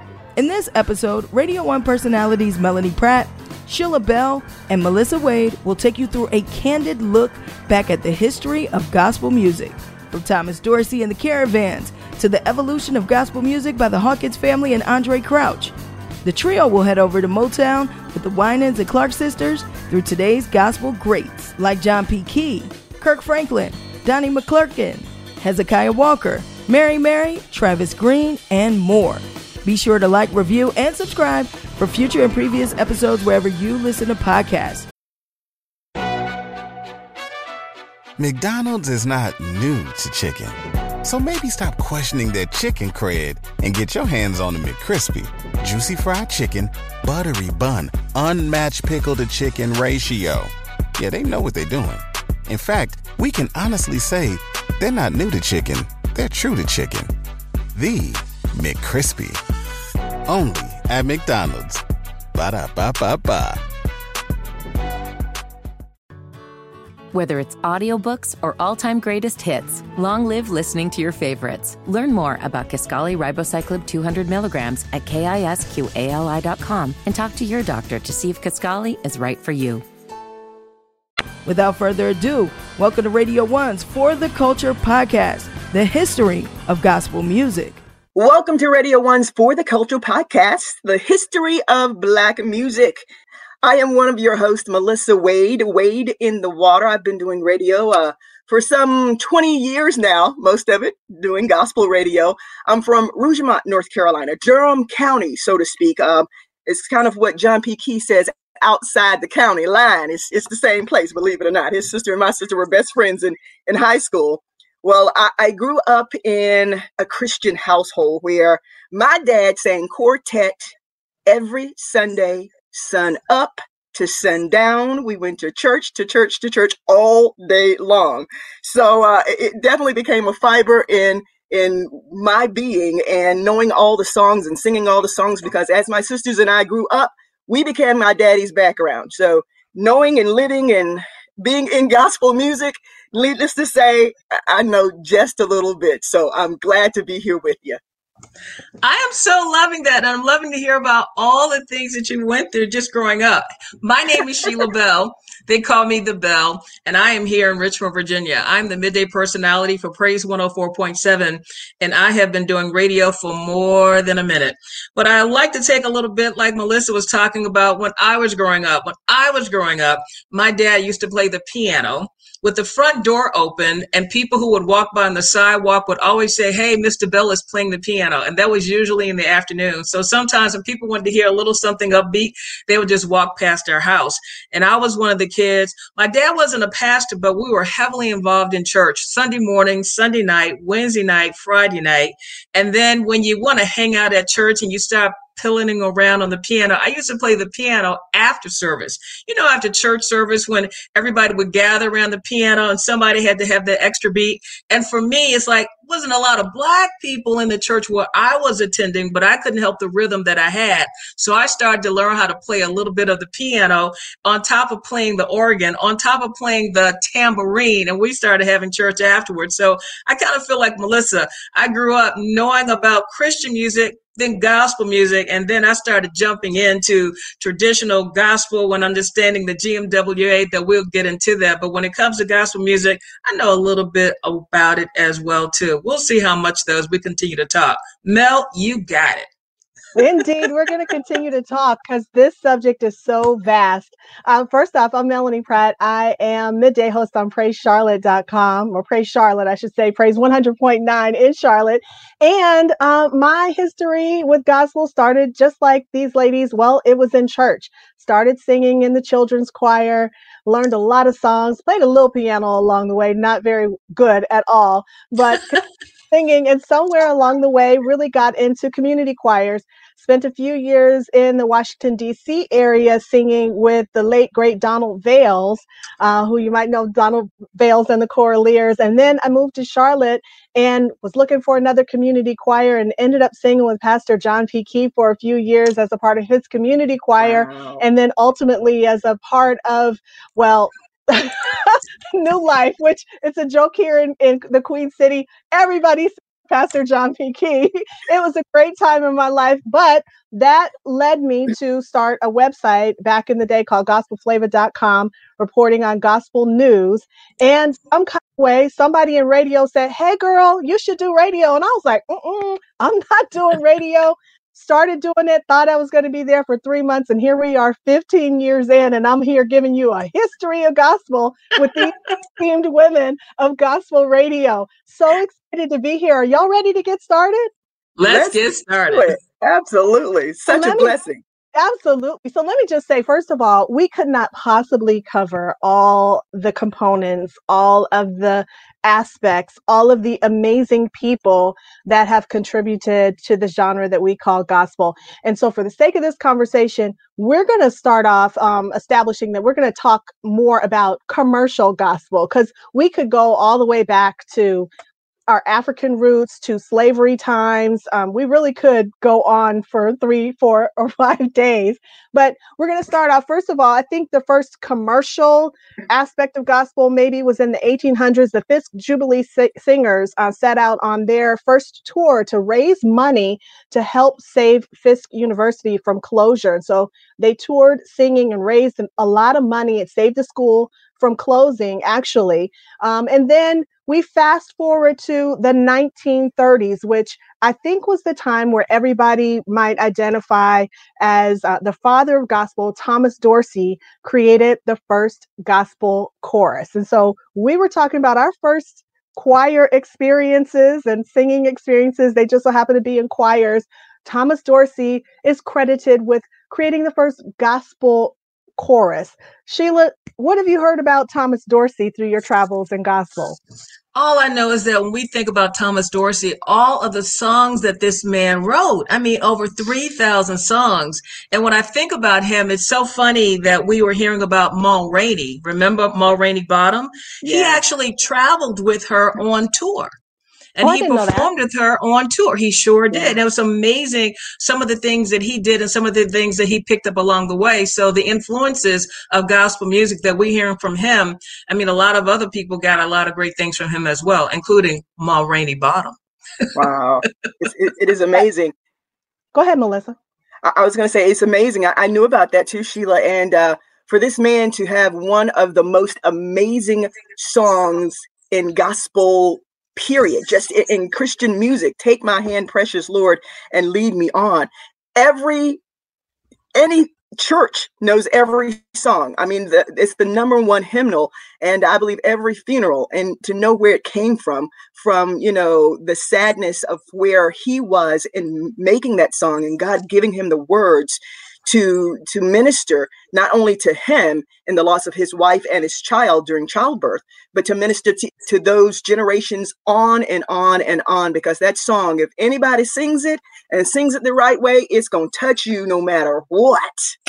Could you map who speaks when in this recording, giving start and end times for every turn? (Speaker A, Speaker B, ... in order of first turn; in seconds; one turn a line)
Speaker A: 0.3-34.9
Speaker B: 38.2-57.1
Speaker B: 57.7-59.4
Speaker B: 60.2-61.8
Speaker B: 62.3-63.6
Speaker C: 67.1-79.8
Speaker A: 81.5-87.8
Speaker D: 88.2-93.1
Speaker D: 93.6-120.7
Speaker D: 121.2-147.8
Speaker E: 148.8-239.3
Speaker F: 239.9-327.5
Speaker D: 287.2-287.8
Speaker E: 328.0-329.1
Speaker D: 328.0-331.2
Speaker F: 330.5-330.9
Speaker F: 331.5-354.7
Speaker F: 355.3-413.4
Speaker E: 413.9-429.9
Speaker D: 427.2-427.6
Speaker E: 430.6-446.0
Speaker F: 430.6-431.3
Speaker D: 432.9-433.2
Speaker D: 446.5-448.5
Speaker F: 449.3-449.9
Speaker D: 450.4-465.6
Speaker D: 466.5-496.9